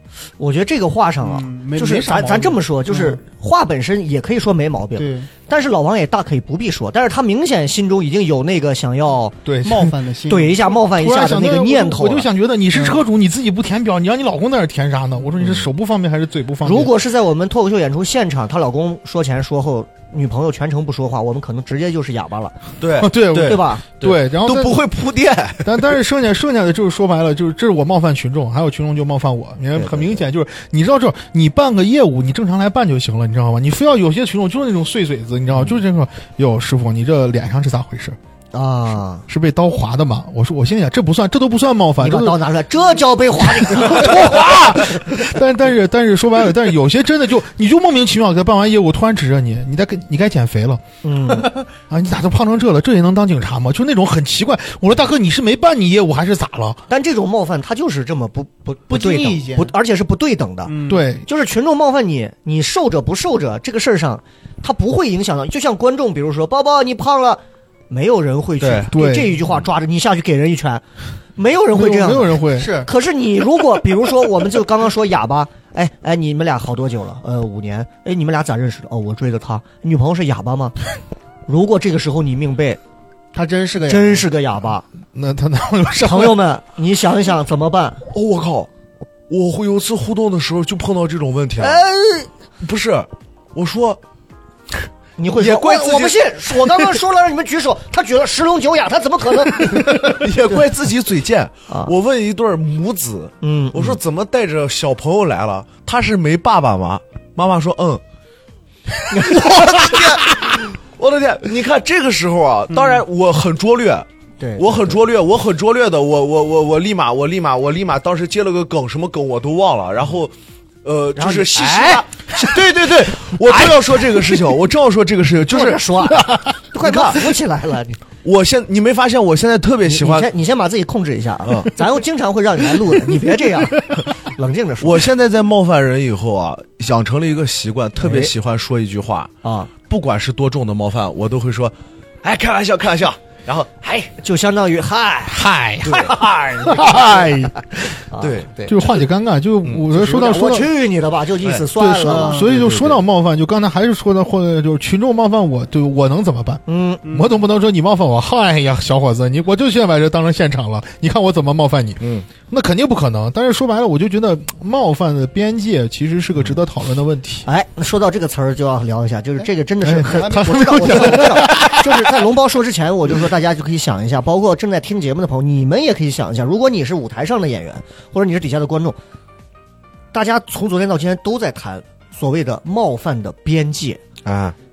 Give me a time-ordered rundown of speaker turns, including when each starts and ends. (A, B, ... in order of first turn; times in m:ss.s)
0:00.4-0:09.4 A
0:01.2-0:03.2 B
0:05.0-0:05.3 B
0:09.4-0:09.9 C
0:09.6-0:10.6 B
0:10.3-0:12.3 A
0:10.8-0:16.9 C
0:16.6-0:22.6 A
0:22.8-0:25.8 D
0:23.0-0:24.8 C
0:23.4-0:23.8 A
0:25.6-0:38.2 C
0:29.7-0:30.2 A
0:38.5-0:39.2 A
0:39.3-0:42.4 C
0:42.0-0:45.0 A
0:43.4-0:50.8 C
0:51.0-0:51.5 A
0:51.6-0:56.8 C
0:56.9-1:10.8 A
0:58.9-0:59.7 B
1:00.6-1:01.1 B
1:00.9-1:01.2 C
1:08.6-1:08.9 D
1:08.9-1:09.4 C
1:11.4-1:20.8 A
1:11.7-1:12.8 C
1:12.5-1:12.9 B
1:21.5-1:22.8 A
1:23.3-1:24.3 B
1:23.9-1:24.8 A
1:25.1-1:26.4 C
1:26.0-1:28.0 A
1:28.1-1:28.7 D
1:29.3-1:31.8 D
1:31.6-1:32.3 A
1:32.6-1:34.0 D
1:35.2-1:40.2 A
1:35.3-1:37.0 D
1:39.7-1:48.0 D
1:43.4-1:44.0 A
1:49.1-1:50.1 A
1:49.2-2:00.3 D
1:52.7-1:53.0 A
1:54.4-1:55.0 A
2:00.8-2:06.2 D
2:01.1-2:04.2 A
2:05.5-2:08.0 A
2:06.8-2:07.3 D
2:08.2-2:10.3 D
2:09.9-2:15.1 A
2:11.4-2:11.7 D
2:14.8-2:24.1 D
2:18.0-2:18.3 A
2:19.4-2:19.7 A
2:24.1-2:28.8 A
2:25.3-2:26.1 C
2:25.8-2:26.2 D
2:26.6-2:28.0 C
2:28.2-2:28.5 D
2:28.6-2:30.7 C
2:29.9-2:32.5 A
2:31.7-2:47.5 C
2:32.0-2:32.6 B
2:32.5-2:33.0 D
2:36.7-2:37.0 A
2:37.0-2:37.3 B
2:42.0-2:42.2 D
2:47.4-2:59.0 A
2:49.8-2:52.2 C
2:49.9-2:51.5 B
3:00.1-3:04.0 A
3:04.2-3:04.6 D